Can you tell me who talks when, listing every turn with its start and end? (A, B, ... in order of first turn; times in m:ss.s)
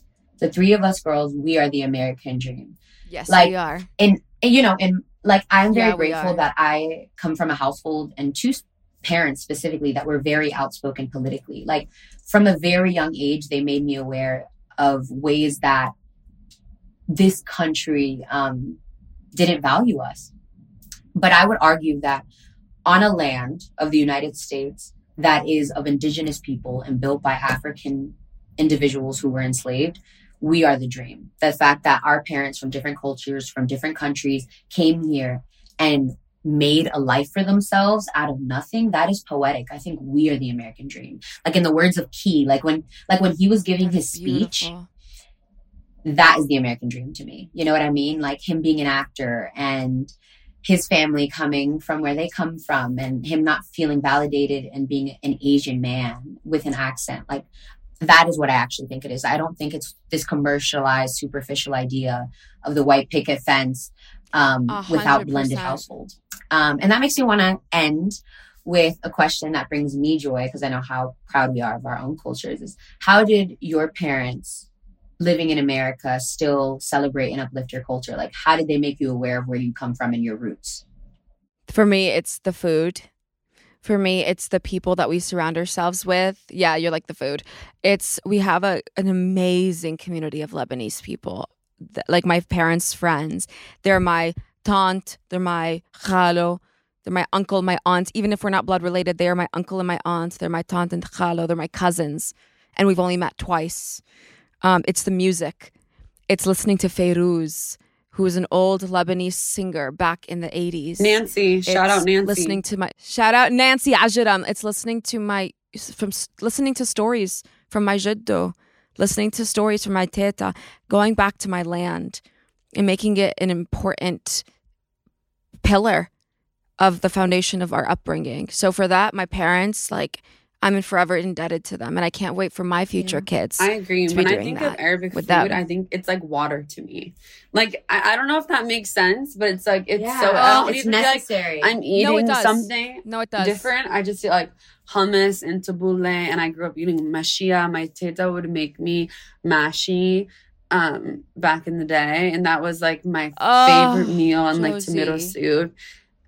0:00.4-0:02.8 A
0:03.1-0:03.9 B
0:03.3-0:15.9 A
0:05.7-0:06.4 B
0:17.1-0:18.8 A
0:19.3-0:20.3 A
0:21.1-0:22.2 A
0:22.8-0:44.7 A
0:43.8-0:44.9 B
0:46.0-0:50.1 A
0:50.6-0:57.5 A
0:58.0-1:14.7 A
1:04.7-1:05.8 B
1:15.2-1:20.8 A
1:21.7-1:23.1 B
1:23.8-1:44.0 B
1:44.6-1:45.7 B
1:46.3-2:02.2 B
1:51.0-1:52.6 C
2:02.7-2:04.4 B
2:05.6-2:06.1 B
2:06.8-2:15.6 B
2:13.0-2:13.2 A
2:13.6-2:35.7 C
2:19.9-2:21.7 A
2:20.4-2:20.7 B
2:21.9-2:23.7 B
2:33.4-2:35.3 B